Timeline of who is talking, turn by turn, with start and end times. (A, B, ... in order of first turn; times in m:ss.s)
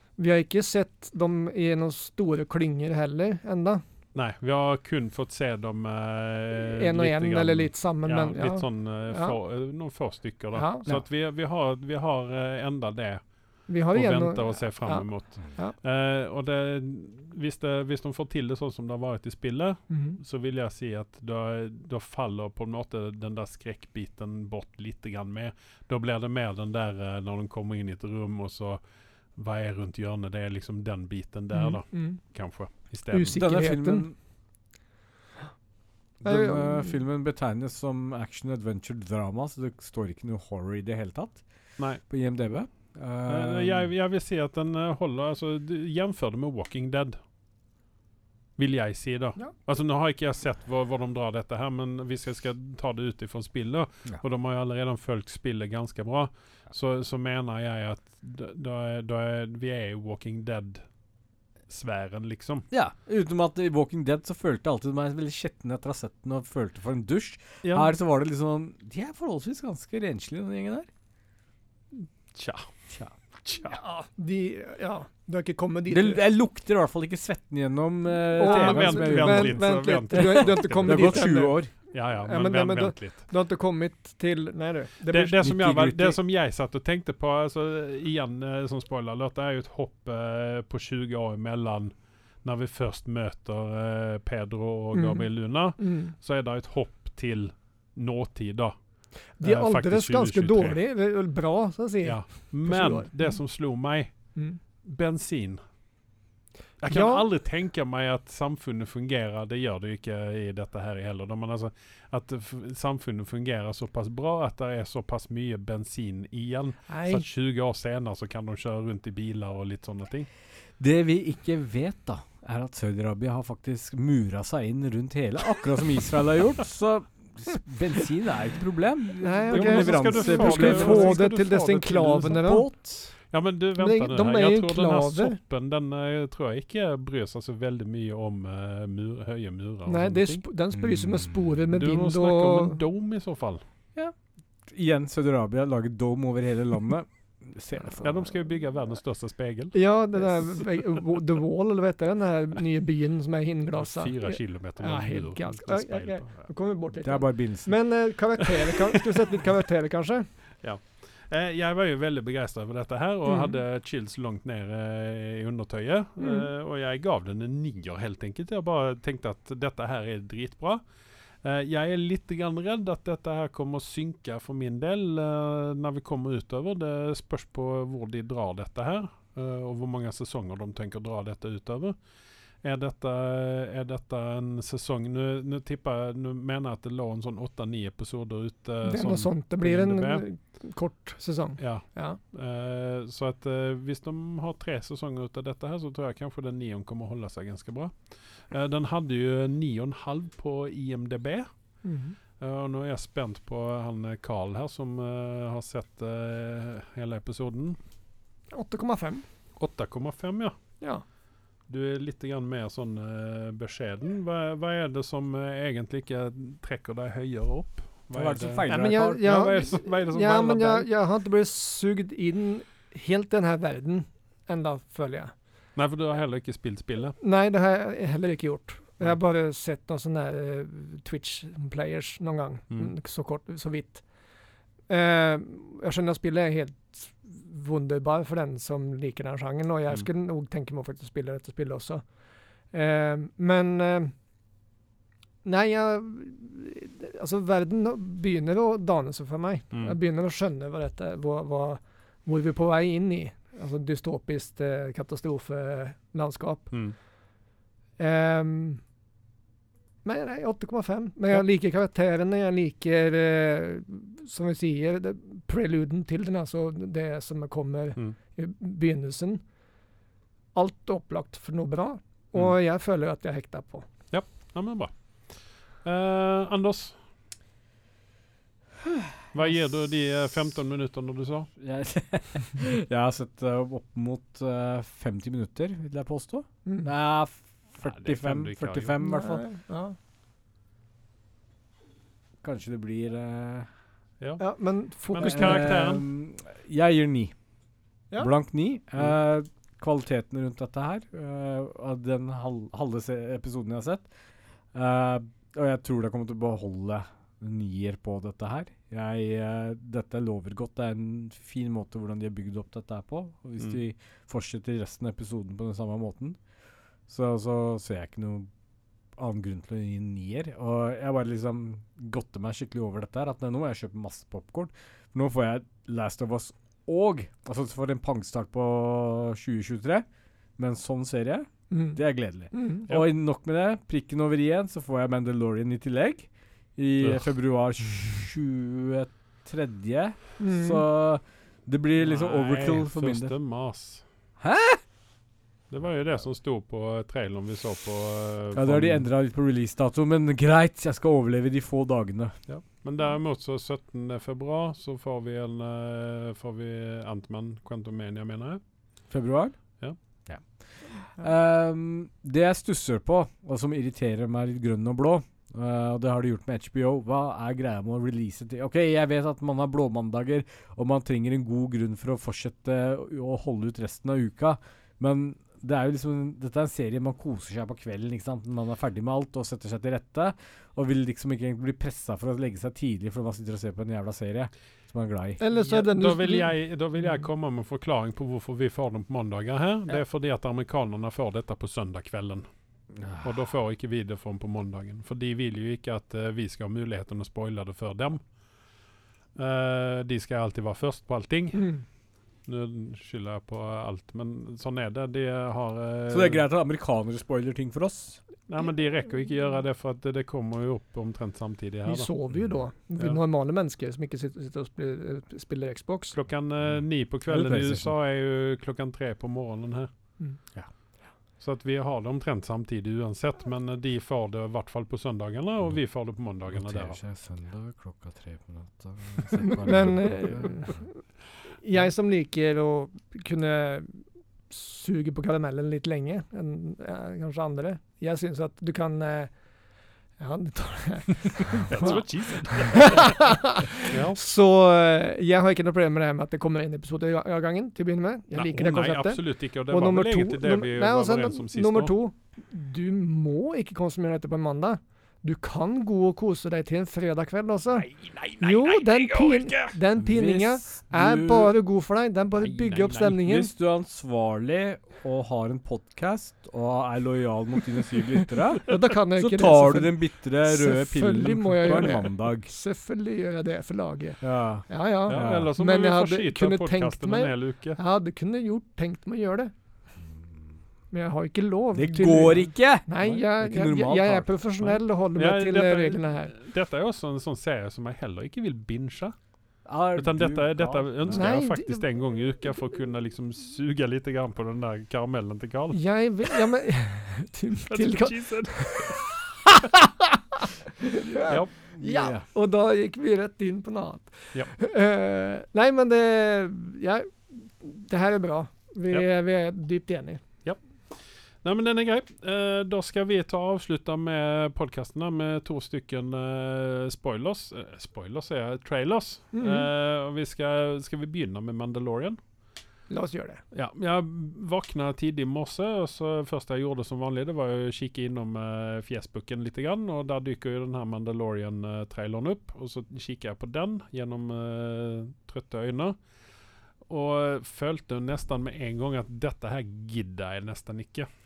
0:00.2-0:03.8 A
0:04.1-0:28.8 B
0:06.6-0:09.4 A
0:10.6-0:10.9 A
0:13.7-0:15.8 A
0:19.9-0:20.2 A
0:29.4-0:33.4 B
0:31.5-0:32.2 A
0:33.1-0:34.1 A
0:33.3-0:34.2 C
0:36.2-0:43.9 C
0:36.2-0:37.0 A
0:43.3-0:47.2 B
0:48.6-1:00.8 B
1:01.7-1:02.7 B
1:02.7-1:10.9 C
1:07.6-1:07.9 B
1:12.0-1:13.8 B
1:13.8-1:16.2 A
1:15.9-1:21.7 C
1:18.4-1:25.4 A
1:18.4-1:23.2 B
1:25.1-1:38.8 B
1:25.4-1:26.2 C
1:34.9-1:36.1 A
1:39.4-1:43.4 A
1:39.4-1:40.8 B
1:42.0-1:45.6 B
1:46.8-2:00.3 B
1:46.9-1:47.2 A
1:56.9-1:57.3 A
2:00.8-2:11.2 C
2:09.2-2:12.7 A
2:09.5-2:12.4 B
2:12.1-2:13.2 C
2:13.3-2:20.4 B
2:13.8-2:15.4 A
2:19.9-2:22.8 A
2:20.8-2:21.5 C
2:21.7-2:23.6 B
2:24.0-2:28.3 C
2:28.0-2:29.9 B
2:29.7-2:40.3 A
2:33.8-2:36.5 B
2:37.0-2:37.9 C
2:40.6-2:50.8 B
2:43.3-2:43.6 A
2:46.2-2:46.5 A
2:51.4-3:02.0 B
3:02.6-3:10.3 B
3:08.8-3:12.2 A
3:11.6-3:21.5 B
3:21.8-3:22.2 A
3:22.4-3:27.8 B
3:28.5-3:29.2 A
3:29.6-3:30.6 B
3:31.7-3:40.9 B
3:38.1-3:39.4 C
3:38.7-3:45.3 A
3:45.8-3:47.2 B
3:47.2-3:54.1 A
3:54.9-4:02.1 A
4:02.7-4:04.1 A
4:05.4-4:16.9 A
4:09.7-4:10.0 B
4:16.7-4:17.0 B
4:18.0-4:18.8 A
4:20.0-4:29.4 A
4:30.5-4:33.9 A
4:34.1-4:37.0 B
4:39.3-4:41.5 B
4:41.6-4:49.4 C
4:47.8-4:49.0 B
4:49.0-4:50.0 A
4:52.4-4:53.7 C
4:54.2-4:56.1 B
4:54.4-4:55.7 A
4:55.2-4:57.4 C
4:58.2-5:04.1 C
5:04.7-5:16.4 C
5:17.1-5:18.5 C
5:19.2-5:30.0 C
5:30.6-5:43.4 C
5:31.7-5:32.0 A
5:32.5-5:32.8 A
5:40.4-5:40.8 A
5:42.0-5:44.0 B
5:44.4-5:44.8 C
5:45.7-5:49.1 B
5:48.5-5:52.4 C
5:52.5-5:58.6 B
5:59.1-6:25.4 C
6:25.4-6:27.2 A
6:25.6-6:32.4 B
6:32.9-6:33.4 C
6:33.2-6:38.2 B
6:39.4-6:41.9 B
6:41.6-6:41.8 A
6:42.4-6:46.4 B
6:46.1-6:48.2 C
6:48.5-6:52.3 B
6:51.9-6:56.2 A
6:53.0-6:53.2 B
6:56.1-6:59.9 B
6:56.6-6:57.9 C
7:01.4-7:07.0 B
7:05.6-7:10.7 C
7:09.6-7:19.4 A
7:20.2-7:43.5 A
7:21.7-7:24.2 B
7:28.3-7:31.9 B
7:37.8-7:39.8 B
7:40.0-7:41.5 C
7:42.4-7:43.2 B
7:43.2-7:52.5 C
7:48.7-7:59.5 A
7:54.2-7:55.5 C
7:55.1-7:57.8 B
8:00.9-8:06.3 A
8:01.8-8:04.8 C
8:05.2-8:09.2 B
8:09.6-8:11.4 C
8:10.0-8:15.9 B
8:11.1-8:11.9 A
8:15.7-8:19.0 A
8:17.7-8:19.1 B
8:21.1-8:30.2 A
8:21.3-8:21.5 B
8:21.7-8:22.3 C
8:31.4-8:42.2 B
8:39.3-8:39.7 A
8:42.9-8:43.4 A
8:43.5-8:56.0 B
8:56.9-9:01.1 B